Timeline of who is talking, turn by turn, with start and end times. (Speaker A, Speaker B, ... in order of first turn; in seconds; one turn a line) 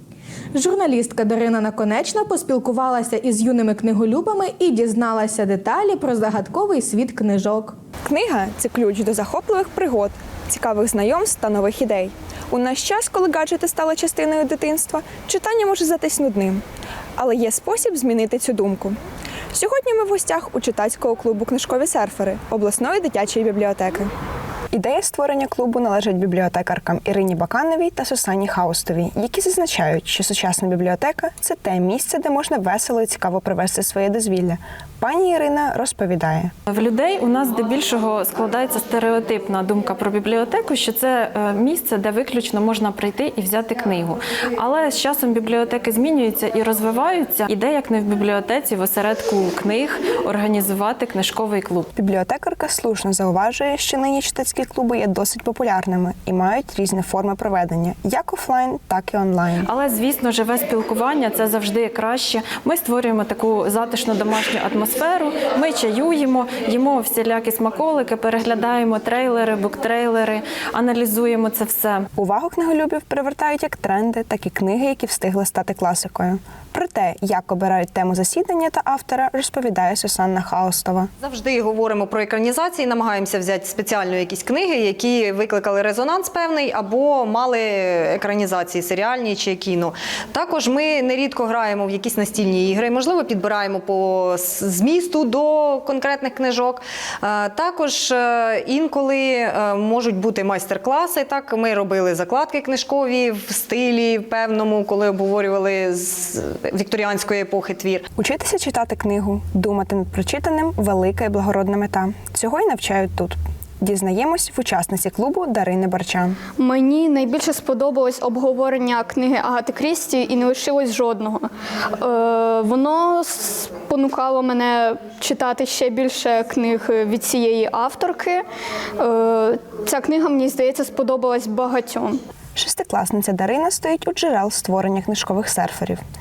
Speaker A: 0.5-7.7
Speaker B: 8.0-16.6
Speaker B: 17.2-19.0
Speaker B: 19.5-24.1
Speaker B: 24.7-36.5
Speaker C: 36.7-51.9
Speaker B: 51.9-59.7
Speaker C: 59.6-72.0
Speaker B: 72.1-81.1
Speaker D: 81.2-108.0
Speaker B: 108.1-116.4
Speaker E: 116.6-128.4
Speaker E: 129.0-132.2
Speaker B: 132.6-136.0